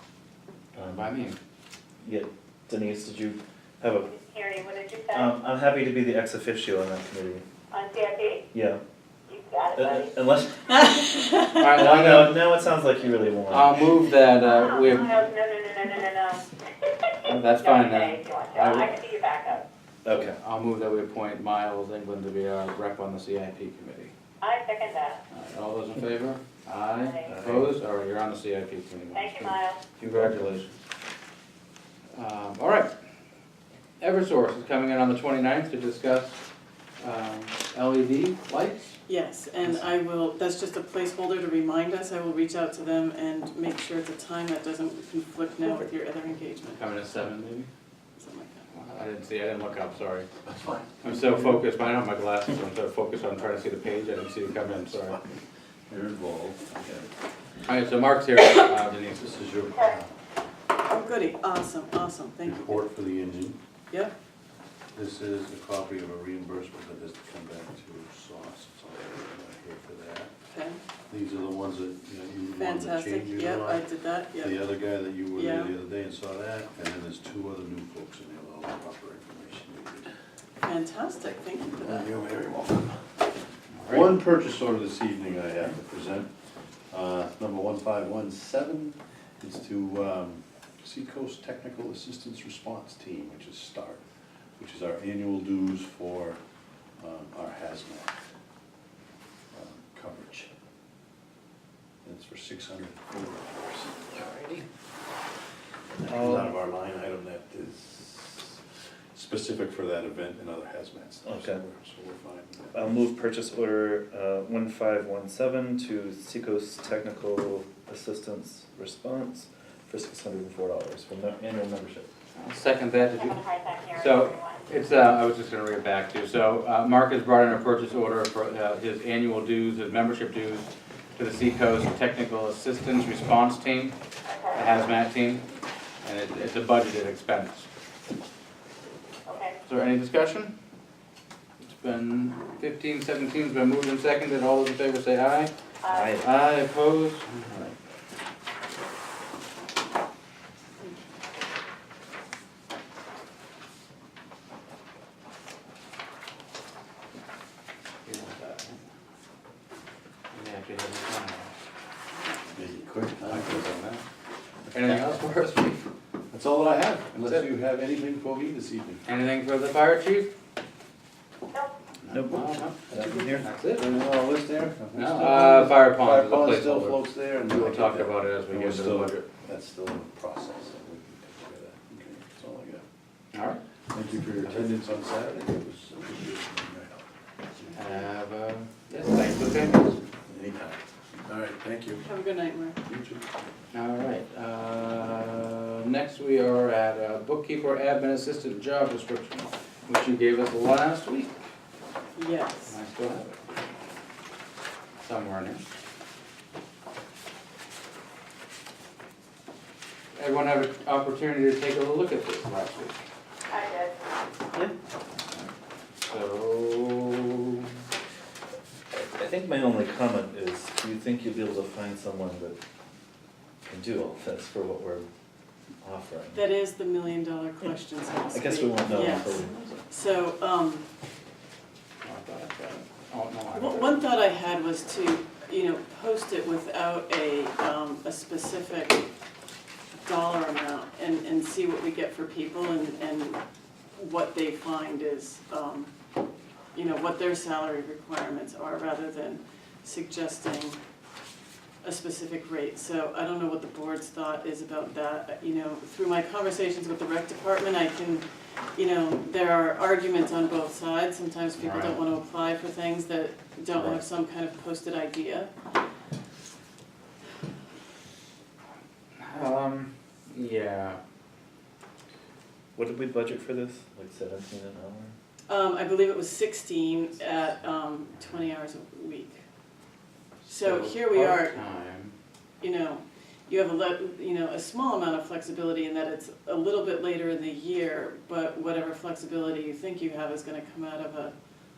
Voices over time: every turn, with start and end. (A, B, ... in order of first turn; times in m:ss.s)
0:00.7-0:01.4 A
0:00.7-0:01.1 B
0:02.0-0:04.1 B
0:04.1-0:05.3 C
0:05.1-0:07.4 B
0:07.7-0:08.4 C
0:08.5-0:08.8 B
0:09.3-0:10.1 C
0:09.7-0:10.8 B
0:10.9-0:11.6 D
0:11.5-0:12.5 A
0:11.7-0:13.8 B
0:13.5-0:15.3 A
0:14.4-0:19.6 C
0:17.2-0:19.0 A
0:20.0-0:20.4 B
0:20.1-0:24.1 A
0:24.4-0:25.2 C
0:25.3-0:30.7 A
0:27.0-0:27.4 C
0:27.2-0:27.7 B
0:29.1-0:29.8 C
0:30.0-0:30.5 B
0:32.1-0:32.9 A
0:34.0-0:36.4 A
0:37.0-0:39.0 A
0:39.1-0:46.8 D
0:46.7-0:47.7 A
0:48.2-0:48.6 D
0:48.7-0:50.3 A
0:50.4-0:51.6 E
0:51.0-0:55.2 A
0:55.9-0:57.1 E
0:57.7-0:59.3 A
0:59.1-1:00.1 E
0:59.7-1:00.0 C
1:00.8-1:02.8 D
1:02.4-1:03.6 E
1:04.9-1:10.3 E
1:10.5-1:10.8 D
1:11.1-1:13.8 E
1:12.6-1:14.6 D
1:14.4-1:20.1 E
1:15.3-1:15.7 D
1:20.6-1:22.1 D
1:21.8-1:23.0 E
1:23.7-1:24.2 A
1:23.9-1:26.3 E
1:26.9-1:34.0 E
1:34.6-1:36.4 E
1:37.0-1:38.1 E
1:39.5-1:40.5 E
1:42.0-1:44.6 E
1:46.0-1:48.6 E
1:46.0-1:46.5 B
1:49.1-1:52.8 E
1:51.2-1:51.6 B
1:52.7-2:02.1 B
2:02.3-2:03.4 A
2:03.2-2:04.6 C
2:03.9-2:13.9 A
2:14.3-2:14.7 C
2:14.5-2:15.4 A
2:16.0-2:17.7 A
2:19.2-2:19.6 C
2:19.6-2:20.5 A
2:21.6-2:25.5 A
2:25.8-2:26.2 C
2:25.9-2:26.3 B
2:26.2-2:27.7 A
2:38.0-2:38.8 A
2:40.3-2:41.5 A
2:42.5-2:43.7 E
2:43.2-2:44.0 A
2:44.7-2:45.8 A
2:46.3-2:49.0 E
2:47.2-2:47.5 A
2:49.0-2:50.3 A
2:52.0-2:53.8 A
2:52.1-2:53.5 B
2:52.9-3:02.8 E
2:54.9-2:59.2 A
3:03.3-3:03.6 A
3:03.9-3:07.0 E
3:07.6-3:08.0 E
3:07.7-3:10.0 A
3:10.3-3:12.0 E
3:12.0-3:12.8 D
3:12.8-3:13.2 E
3:13.7-3:21.4 A
3:22.2-3:22.7 D
3:22.7-3:23.3 A
3:25.0-3:25.6 A
3:30.1-3:33.0 A
3:33.5-3:33.9 C
3:36.1-3:37.6 A
3:38.9-3:42.6 B
3:43.6-3:45.1 B
3:45.8-3:46.5 B
3:46.3-3:50.9 D
3:48.3-3:49.8 B
3:52.0-3:54.1 A
3:53.5-3:59.0 D
4:00.0-4:03.4 D
4:04.0-4:05.9 D
4:06.7-4:10.8 D
4:11.8-4:25.5 D
4:21.6-4:22.0 A
4:23.7-4:24.0 A
4:29.2-4:31.0 A
4:32.7-4:35.2 B
4:35.5-4:39.4 D
4:40.4-4:41.6 D
4:40.4-4:42.1 A
4:42.6-4:51.3 D